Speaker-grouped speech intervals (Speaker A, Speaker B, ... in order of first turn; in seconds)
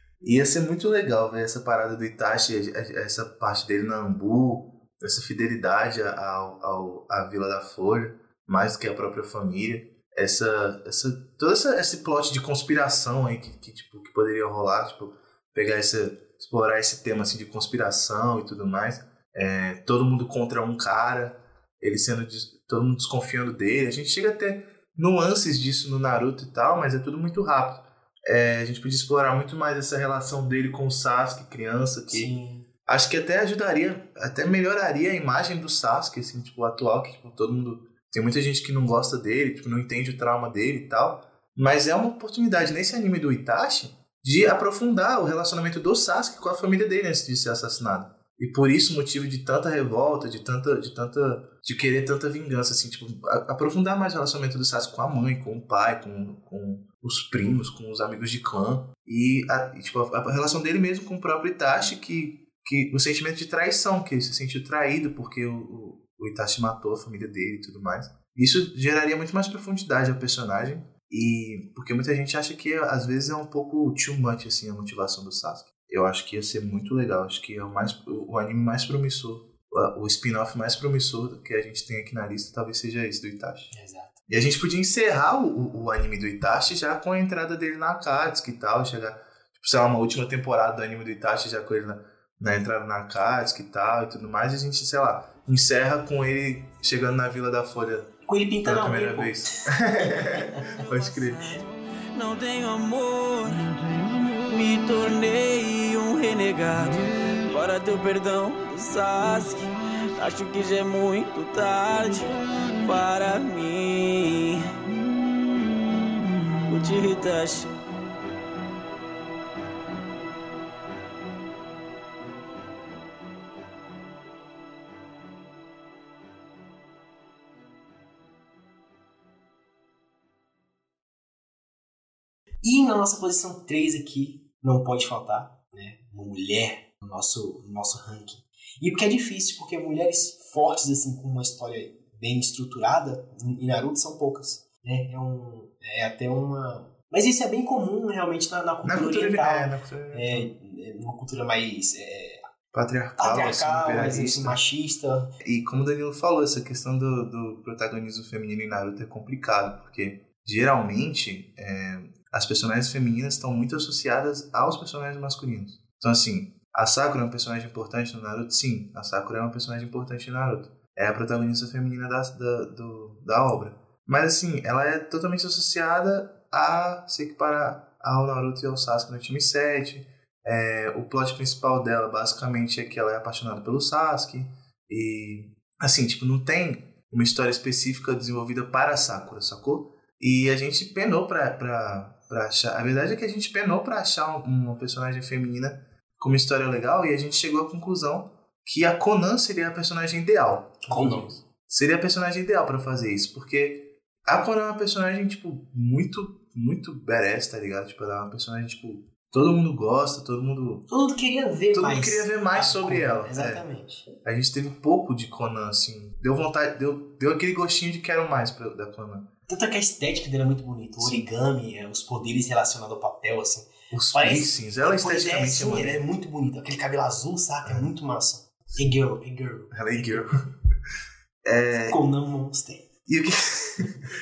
Speaker A: 0.2-32.3, 32.9-83.7, 84.3-101.5, 148.8-150.5, 152.7-154.6, 155.4-210.9, 211.7-213.6, 214.2-219.3, 221.0-221.3, 223.9-226.0, 229.7-230.4, 231.4-232.0, 233.1-233.9
Speaker B: 32.1-32.7, 83.7-84.2, 98.3-100.5, 132.6-152.4, 153.2-155.3, 200.9-201.3, 210.9-214.1, 219.5-230.5, 231.7-232.8
Speaker C: 100.9-114.8, 116.7-117.7